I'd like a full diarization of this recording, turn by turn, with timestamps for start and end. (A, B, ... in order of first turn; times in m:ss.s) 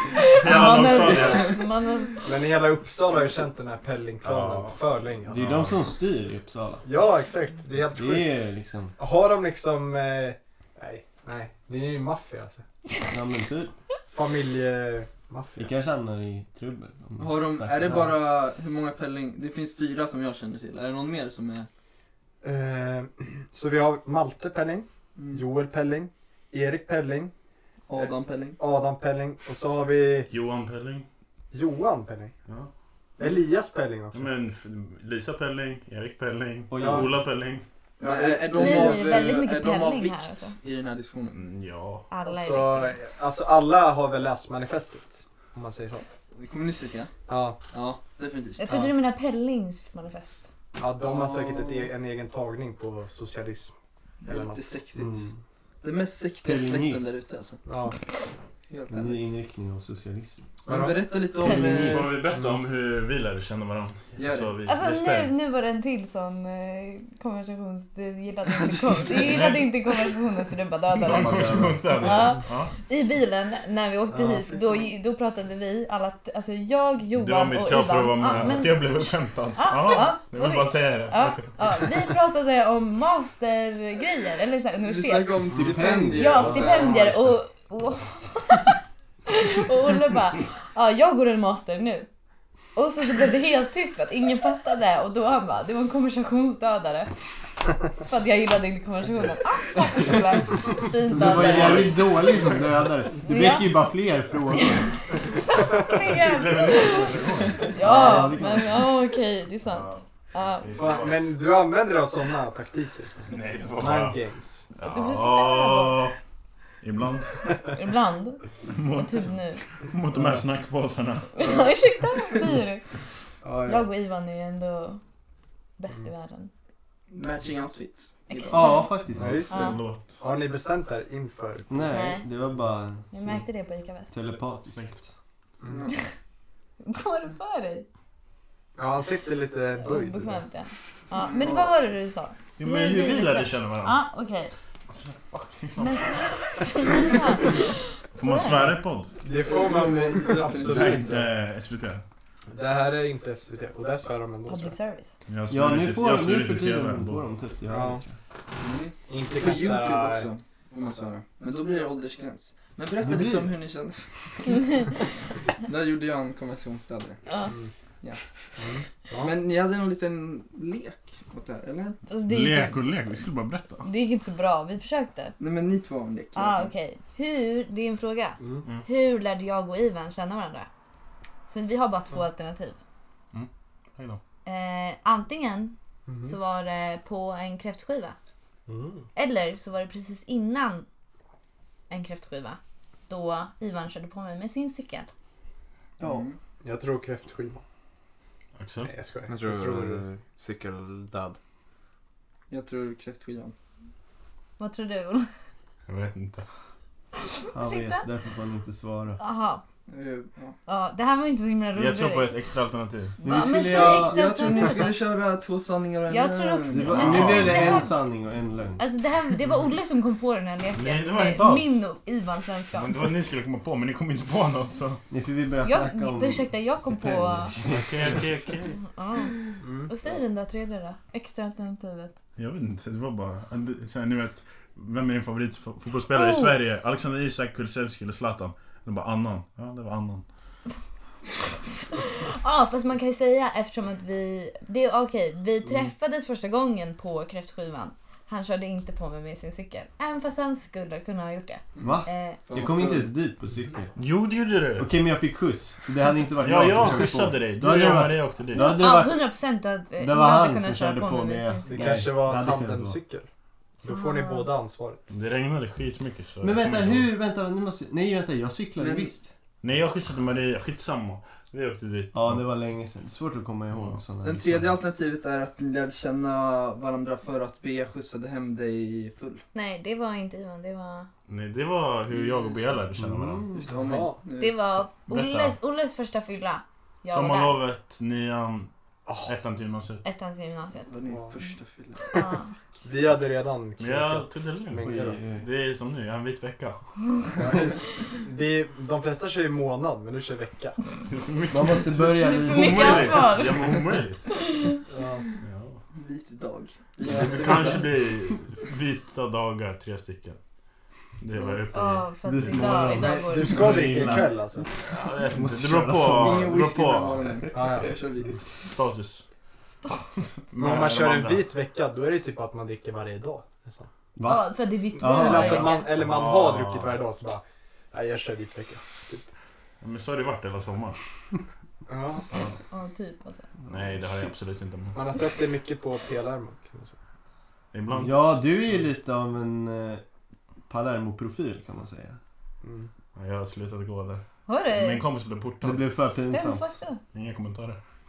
0:00.1-0:02.2 A
0:00.3-0:01.6 B
0:00.7-0:01.4 C
0:02.2-0:05.4 C
0:04.2-0:05.9 B
0:05.3-0:06.8 D
0:06.8-0:08.4 C
0:08.0-0:08.9 D
0:09.0-0:12.6 C
0:13.1-0:13.7 D
0:14.1-0:15.7 C
0:15.6-0:18.0 D
0:17.2-0:21.7 E
0:17.9-0:18.1 C
0:22.4-0:27.3 C
0:25.2-0:25.4 E
0:27.9-0:28.6 E
0:27.9-0:30.3 C
0:30.3-0:31.1 B
0:31.5-0:32.4 C
0:33.2-0:34.3 C
0:34.1-0:37.6 B
0:36.7-0:37.1 D
0:36.8-0:37.1 C
0:38.0-0:39.4 C
0:38.0-0:41.4 E
0:38.6-0:40.6 A
0:41.3-0:42.1 B
0:42.1-0:43.0 A
0:42.3-0:46.1 C
0:46.3-0:47.1 E
0:47.3-0:47.6 C
0:47.7-0:48.6 E
0:48.6-0:50.4 A
0:50.8-0:53.7 C
0:51.0-0:51.9 E
0:54.2-0:55.3 E
0:54.3-0:54.7 C
0:55.0-0:55.4 D
0:55.8-0:57.6 E
0:56.4-0:57.2 D
0:57.7-0:58.0 C
0:58.7-0:59.2 E
0:58.9-1:00.5 D
1:00.7-1:02.2 E
1:00.7-1:01.1 C
1:01.4-1:02.1 D
1:01.8-1:05.3 B
1:04.2-1:04.5 E
1:04.7-1:25.4 A
1:09.1-1:09.7 B
1:11.0-1:12.7 B
1:11.0-1:12.1 D
1:14.1-1:14.5 C
1:17.2-1:21.9 B
1:24.8-1:27.1 E
1:25.5-1:27.1 D
1:26.1-1:32.1 A
1:32.8-1:37.1 A
1:38.0-1:41.9 A
1:41.1-1:44.9 D
1:41.2-1:42.9 B
1:43.2-1:43.7 A
1:45.5-1:50.7 A
1:45.9-1:47.7 B
1:47.8-1:48.9 D
1:49.7-1:50.0 B
1:50.6-1:51.3 B
1:50.8-1:54.7 C
1:53.3-1:54.2 B
1:54.8-1:56.2 B
1:54.8-1:56.1 A
1:56.8-1:57.4 B
1:57.7-1:59.6 A
1:58.7-2:01.3 B
2:01.3-2:02.9 A
2:03.4-2:03.8 D
2:03.7-2:05.0 A
2:05.8-2:06.5 A
2:07.1-2:08.8 E
2:08.3-2:08.9 A
2:08.5-2:09.4 D
2:09.1-2:10.2 B
2:09.1-2:11.8 C
2:09.5-2:09.8 A
2:11.7-2:13.4 D
2:11.9-2:12.3 A
2:13.1-2:14.1 A
2:14.1-2:14.9 D
2:14.7-2:15.0 B
2:15.6-2:15.9 C
2:15.7-2:16.0 E
2:16.8-2:17.9 A
2:18.8-2:20.4 C
2:19.8-2:24.5 A
2:21.2-2:21.7 E
2:22.6-2:24.0 B
2:24.9-2:26.4 B
2:25.8-2:28.6 A
2:28.2-2:29.2 B
2:29.2-2:31.2 C
2:29.4-2:31.2 E
2:30.6-2:32.0 B
2:32.5-2:34.8 C
2:34.5-2:35.1 A
2:35.3-2:37.2 B
2:35.5-2:38.1 D
2:37.7-2:38.0 C
2:38.6-2:44.8 E
2:39.1-2:40.3 C
2:43.0-2:43.6 D
2:45.6-2:47.2 E
2:47.3-2:47.5 A
2:48.6-2:49.3 C
2:49.2-2:52.0 E
2:52.1-2:52.8 A
2:52.3-2:53.9 B
2:53.8-2:55.4 A
2:55.4-2:56.7 E
2:56.4-3:00.7 A
2:58.4-2:58.7 C
3:01.5-3:02.8 A
3:03.3-3:04.2 B
3:04.5-3:08.2 A
3:06.1-3:06.4 C
3:08.7-3:09.1 C
3:09.2-3:10.9 A
3:11.9-3:15.1 A
3:16.0-3:16.4 E
3:16.0-3:17.6 C
3:18.6-3:18.9 B
3:18.8-3:20.0 C
3:19.3-3:21.4 F
3:22.5-3:23.6 E
3:24.6-3:25.3 A
3:25.9-3:26.5 B
3:27.2-3:28.1 A
3:27.5-3:29.2 D
3:29.2-3:29.6 A
3:29.9-3:30.6 E
3:30.7-3:32.3 A
3:31.7-3:33.2 B
3:33.2-3:34.2 D
3:33.2-3:35.0 A
3:33.7-3:37.3 E
3:36.1-3:37.9 A
3:36.7-3:38.8 D
3:36.9-3:37.8 B
3:38.8-3:43.0 A
3:40.8-3:41.8 B
3:42.7-3:45.0 B
3:45.1-3:48.0 D
3:45.6-3:47.6 A
3:47.6-3:48.8 B
3:48.8-3:52.2 A
3:49.6-3:49.9 C
3:52.4-4:00.3 B
3:56.1-3:56.6 A
4:01.6-4:12.4 A
4:11.8-4:13.1 E
4:11.8-4:14.0 D
4:14.0-4:14.9 B
4:14.8-4:19.2 D
4:16.4-4:18.8 B
4:18.6-4:22.0 A
4:20.0-4:23.0 D
4:21.7-4:23.3 C
4:23.8-4:25.2 C
4:23.8-4:24.5 A
4:25.1-4:27.1 B
4:26.4-4:29.3 D
4:28.8-4:29.1 E
4:29.6-4:32.4 B
4:32.1-4:34.6 D
4:34.2-4:39.4 E
4:39.5-4:41.1 A
4:41.3-4:43.4 B
4:42.1-4:42.8 E
4:43.0-4:43.6 D
4:43.5-4:44.6 E
4:43.7-4:44.2 C
4:44.4-4:47.6 A
4:45.1-4:45.6 B
4:47.1-4:48.7 B
4:49.1-4:49.3 C
4:49.2-4:50.0 B
4:50.0-4:50.9 A
4:50.9-4:52.1 E
4:51.1-4:51.4 C
4:52.1-4:52.5 A
4:52.8-4:55.2 C
4:53.8-4:56.8 B
4:54.8-4:55.4 D
4:57.4-5:00.8 C
5:01.1-5:04.3 B
5:01.5-5:03.3 D
5:02.2-5:03.8 A
5:04.4-5:04.8 A
5:04.9-5:05.3 C
5:05.4-5:05.8 B
5:05.9-5:07.8 E
5:07.0-5:10.4 B
5:11.2-5:12.9 B
5:11.4-5:11.6 E
5:11.7-5:13.8 A
5:12.2-5:14.7 D
5:12.9-5:14.7 C
5:14.8-5:17.2 B
5:15.3-5:16.5 D
5:16.0-5:18.4 E
5:17.5-5:18.0 C
5:18.6-5:19.2 B
5:20.5-5:21.5 B
5:20.6-5:23.9 C
5:24.2-5:25.8 D
5:24.2-5:25.9 A
5:25.0-5:29.2 C
5:25.9-5:27.0 B
5:29.8-5:31.0 B
5:31.9-5:32.3 C
5:32.7-5:33.5 A
5:33.7-5:34.0 D
5:33.7-5:35.0 B
5:34.9-5:37.0 C
5:37.7-5:38.2 B
5:37.9-5:40.0 D
5:40.7-5:42.2 D
5:42.6-5:42.9 C
5:43.2-5:45.9 B
5:44.5-5:45.0 A
5:45.6-5:46.7 D
5:46.3-5:47.0 A
5:47.1-5:47.8 B